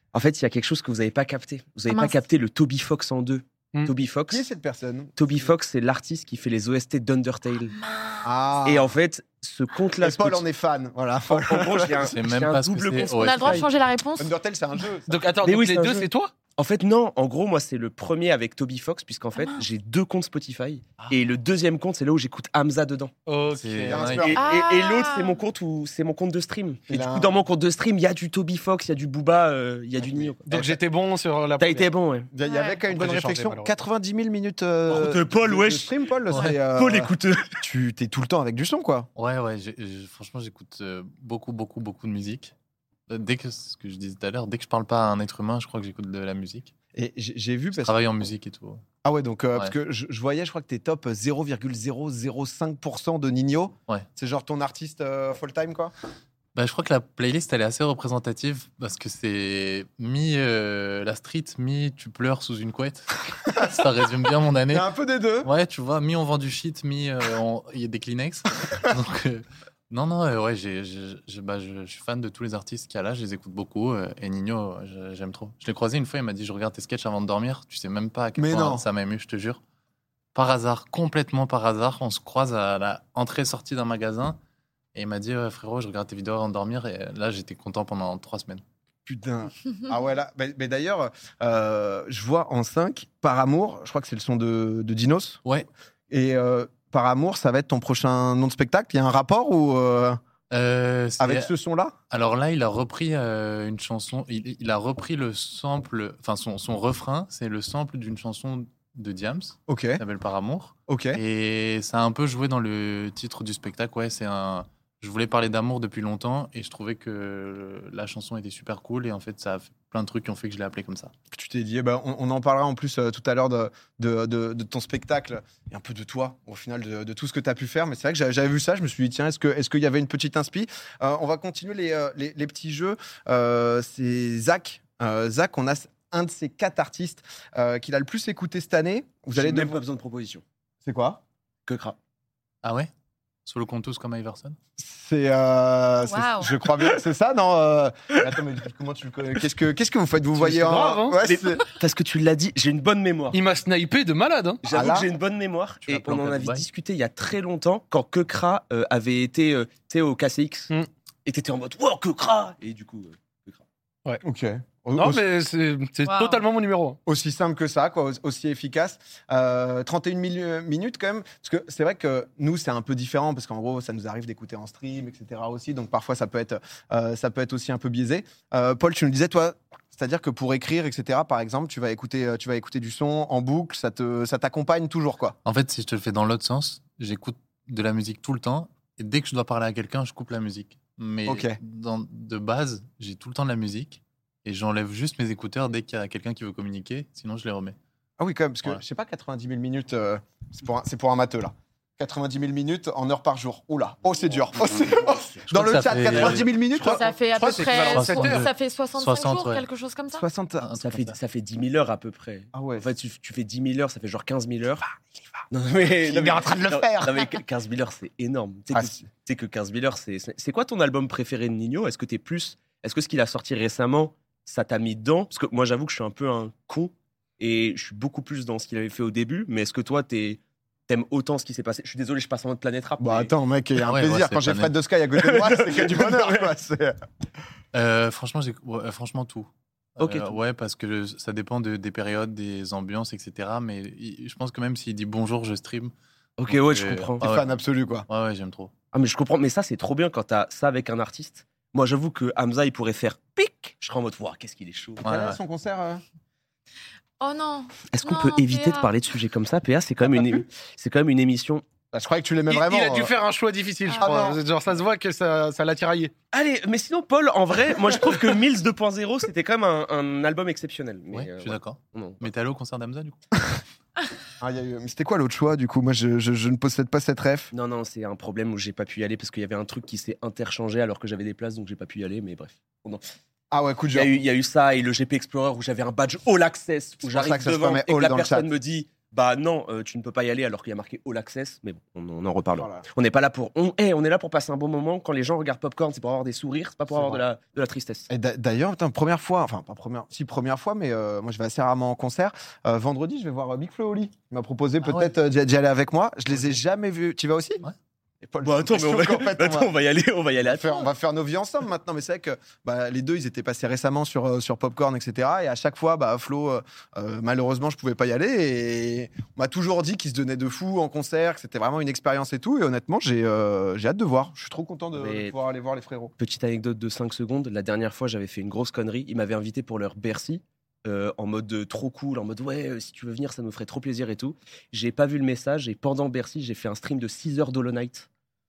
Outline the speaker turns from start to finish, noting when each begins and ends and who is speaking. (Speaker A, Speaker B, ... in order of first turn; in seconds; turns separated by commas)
Speaker A: 0.1-4.5, Speaker B: 1.9-2.3, Speaker C: 4.3-5.5, Speaker A: 5.2-7.8, Speaker B: 7.8-8.2, Speaker C: 8.2-8.9, Speaker A: 8.6-10.4, Speaker C: 10.0-12.1, Speaker A: 11.3-13.7, Speaker D: 12.0-13.7, Speaker B: 13.2-14.3, Speaker C: 14.2-15.1, Speaker E: 15.1-16.3, Speaker A: 15.4-23.1, Speaker B: 19.3-19.6, Speaker E: 23.3-24.0, Speaker D: 23.5-24.4, Speaker C: 23.9-24.4, Speaker A: 24.1-30.6, Speaker B: 24.4-25.4, Speaker C: 26.9-27.4, Speaker C: 30.0-30.7, Speaker E: 30.5-31.9, Speaker A: 31.6-32.3, Speaker C: 32.3-39.1, Speaker B: 32.4-32.9, Speaker E: 32.9-33.7, Speaker A: 34.9-36.0, Speaker A: 36.7-37.6, Speaker D: 39.2-42.5, Speaker D: 43.1-46.7, Speaker C: 46.9-48.0, Speaker D: 47.8-48.8, Speaker C: 49.0-55.9, Speaker D: 56.5-64.9, Speaker C: 64.7-65.5, Speaker D: 65.4-79.6, Speaker C: 78.4-78.9, Speaker D: 80.3-84.4, Speaker D: 84.9-88.6, Speaker C: 89.1-95.4, Speaker C: 96.1-100.2, Speaker D: 100.5-101.5, Speaker C: 101.2-101.9, Speaker D: 102.1-121.1, Speaker C: 109.7-110.0, Speaker C: 110.9-111.2, Speaker C: 121.3-139.8, Speaker A: 139.3-140.4, Speaker C: 140.8-141.2, Speaker A: 141.7-142.0, Speaker D: 142.6-142.9, Speaker D: 143.5-144.6, Speaker C: 144.8-151.7, Speaker B: 146.0-146.6, Speaker E: 150.3-151.2, Speaker A: 151.2-153.4, Speaker E: 153.3-154.6, Speaker A: 154.6-160.7, Speaker C: 154.7-155.1, Speaker D: 155.8-156.7, Speaker A: 161.3-163.6, Speaker C: 164.2-165.2, Speaker E: 165.0-167.0, Speaker B: 166.1-166.4, Speaker C: 167.1-185.4, Speaker D: 185.4-197.8, Speaker C: 191.3-191.6, Speaker C: 198.2-208.1, Speaker D: 205.5-206.5, Speaker A: 206.1-206.4, Speaker B: 206.7-210.2, Speaker E: 207.6-208.5, Speaker D: 207.7-209.7, Speaker C: 210.1-210.7, Speaker D: 210.6-211.2, Speaker A: 210.8-214.8, Speaker C: 212.5-212.9, Speaker A: 215.5-233.3, Speaker C: 216.0-217.2, Speaker C: 218.7-219.1, Speaker C: 233.0-237.0, Speaker D: 233.8-234.7, Speaker A: 235.2-236.5, Speaker D: 237.7-245.9, Speaker A: 240.0-240.3, Speaker A: 246.4-247.3, Speaker D: 246.5-248.7, Speaker C: 247.2-248.1, Speaker A: 248.9-255.1, Speaker D: 255.0-255.4, Speaker C: 255.0-256.0, Speaker B: 257.2-258.9, Speaker A: 257.9-261.6, Speaker C: 261.9-263.1, Speaker E: 262.5-266.1, Speaker B: 263.9-264.3, Speaker C: 264.0-264.4, Speaker A: 266.3-272.3, Speaker D: 271.1-273.2, Speaker C: 274.4-277.5, Speaker A: 277.5-283.1, Speaker C: 283.5-284.1, Speaker A: 283.9-298.1, Speaker C: 287.0-288.5, Speaker C: 292.6-292.9, Speaker C: 296.9-297.2, Speaker C: 298.1-307.6, Speaker D: 304.8-305.1, Speaker D: 306.3-306.6, Speaker C: 308.2-309.7, Speaker A: 308.4-310.9, Speaker C: 310.4-326.1, Speaker A: 324.9-325.3, Speaker A: 326.2-338.1